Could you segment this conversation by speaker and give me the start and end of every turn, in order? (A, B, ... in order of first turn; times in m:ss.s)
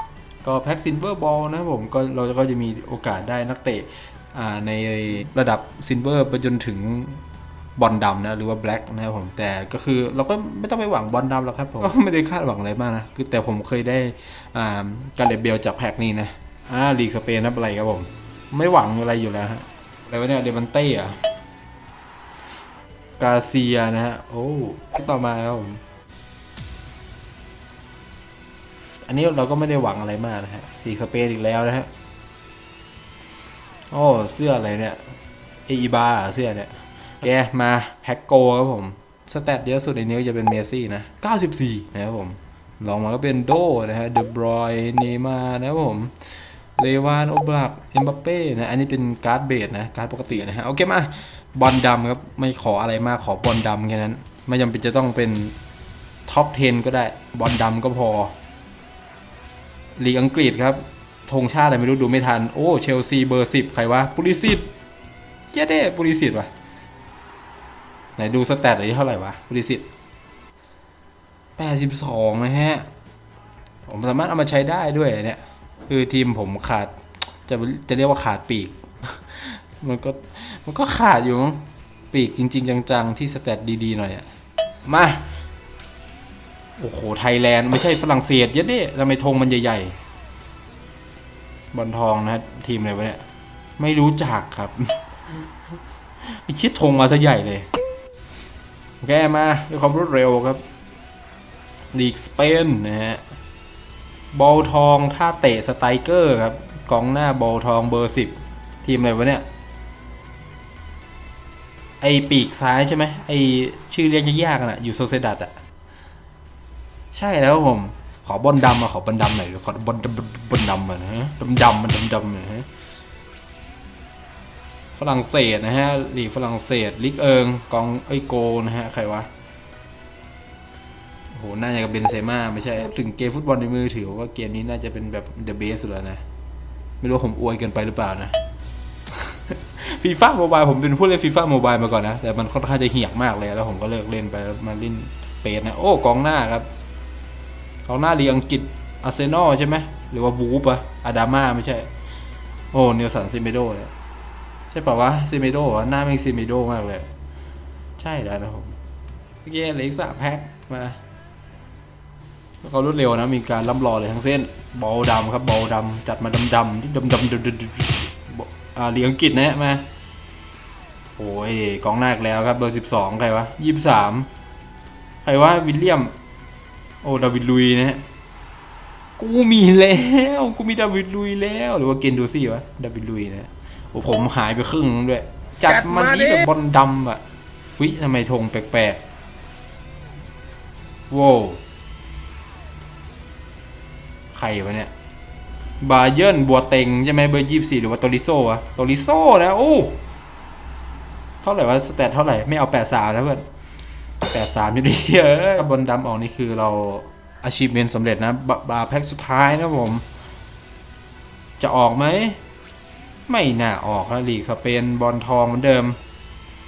0:00.4-0:07.2 A
0:07.8-0:21.2 A
0:23.2-0:25.8 A
0:29.1-0:31.9 A
0:33.9-0:55.6 A
0:56.3-0:58.3 A
1:00.0-1:04.7 A
1:05.5-1:06.5 A
1:08.2-1:09.9 A
1:11.6-1:12.9 A
1:13.9-1:24.3 A
1:24.8-1:25.3 A
1:26.8-1:30.0 A
1:31.7-1:33.3 A
1:33.8-1:35.5 A
1:36.2-1:37.7 A
1:39.0-1:40.6 A
1:41.9-1:43.2 A
1:44.3-1:49.4 A
1:52.0-1:55.6 A
1:57.1-2:02.7 A
2:04.9-2:09.3 A
2:11.3-2:16.2 A
2:17.0-2:18.4 A
2:19.1-2:26.7 A
2:27.8-2:31.9 A
2:32.7-2:33.9 A
2:34.7-2:37.1 A
2:38.0-2:38.8 A
2:39.4-2:41.0 A
2:42.6-2:49.9 A
2:51.2-2:54.3 A
2:55.2-2:56.2 A
2:57.0-2:58.0 A
2:59.2-3:07.2 A
3:07.8-3:09.0 A
3:11.1-3:11.6 A
3:14.3-3:14.9 A
3:15.8-3:20.0 A
3:21.4-3:23.4 A
3:24.2-3:30.0 A
3:31.6-3:32.4 A
3:33.3-3:36.0 A